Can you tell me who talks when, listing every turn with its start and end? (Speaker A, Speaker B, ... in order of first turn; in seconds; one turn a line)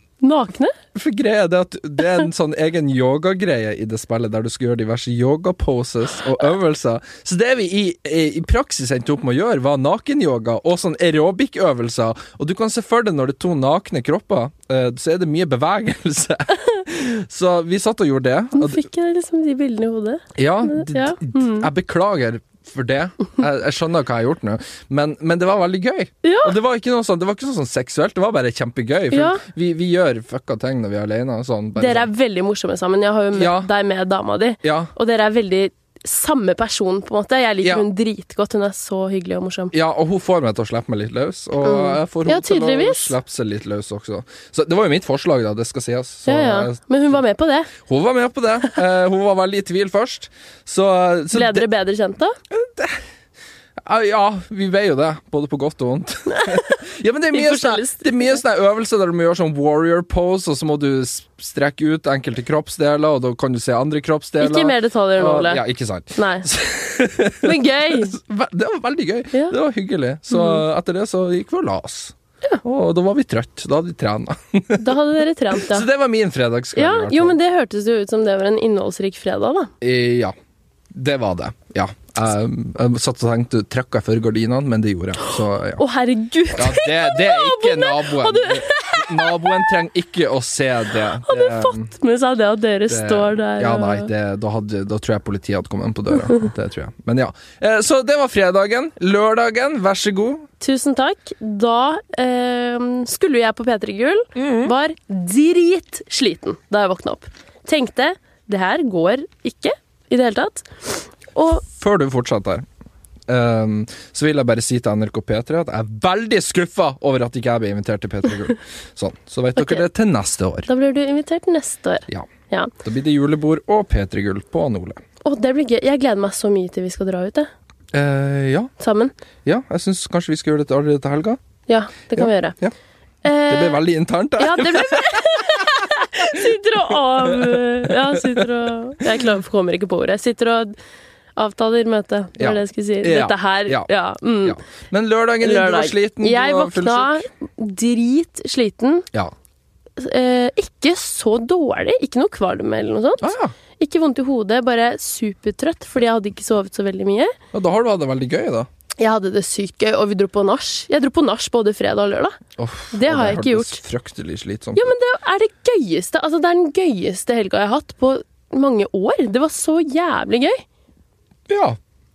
Speaker A: 0.2-0.7
Speaker B: 0.9-18.8
Speaker A: 18.5-21.7
Speaker B: 20.4-32.1
Speaker A: 26.2-26.6
Speaker A: 29.1-29.4
Speaker A: 31.8-39.7
Speaker B: 33.3-33.7
Speaker B: 34.6-34.9
Speaker B: 39.7-46.8
Speaker A: 41.6-43.1
Speaker A: 46.2-47.7
Speaker B: 47.8-51.6
Speaker A: 51.3-52.4
Speaker B: 52.5-53.0
Speaker B: 53.8-74.9
Speaker A: 56.3-56.8
Speaker A: 57.3-58.4
Speaker A: 64.4-65.6
Speaker A: 66.2-66.5
Speaker A: 67.4-68.2
Speaker A: 70.3-70.6
Speaker A: 74.8-75.9
Speaker B: 75.5-77.4
Speaker A: 76.8-79.7
Speaker B: 79.8-80.3
Speaker B: 80.9-85.8
Speaker A: 85.8-89.7
Speaker B: 86.5-91.9
Speaker A: 91.2-94.1
Speaker B: 92.9-100.5
Speaker A: 100.6-111.7
Speaker B: 104.3-104.7
Speaker B: 111.6-112.6
Speaker B: 113.3-120.7
Speaker A: 119.6-119.8
Speaker A: 120.7-122.7
Speaker B: 122.8-125.0
Speaker A: 125.2-127.5
Speaker B: 127.9-128.7
Speaker A: 128.8-129.1
Speaker B: 129.4-131.4
Speaker A: 131.7-132.6
Speaker B: 132.2-132.7
Speaker A: 133.2-133.8
Speaker B: 133.5-138.5
Speaker A: 134.4-140.8
Speaker A: 141.3-144.6
Speaker B: 142.4-143.9
Speaker B: 144.4-147.2
Speaker A: 145.4-149.1
Speaker A: 150.0-157.3
Speaker B: 153.2-153.5
Speaker B: 157.5-158.7
Speaker A: 159.0-162.4
Speaker B: 162.6-164.9
Speaker A: 162.9-163.8
Speaker A: 164.7-170.6
Speaker B: 171.5-171.8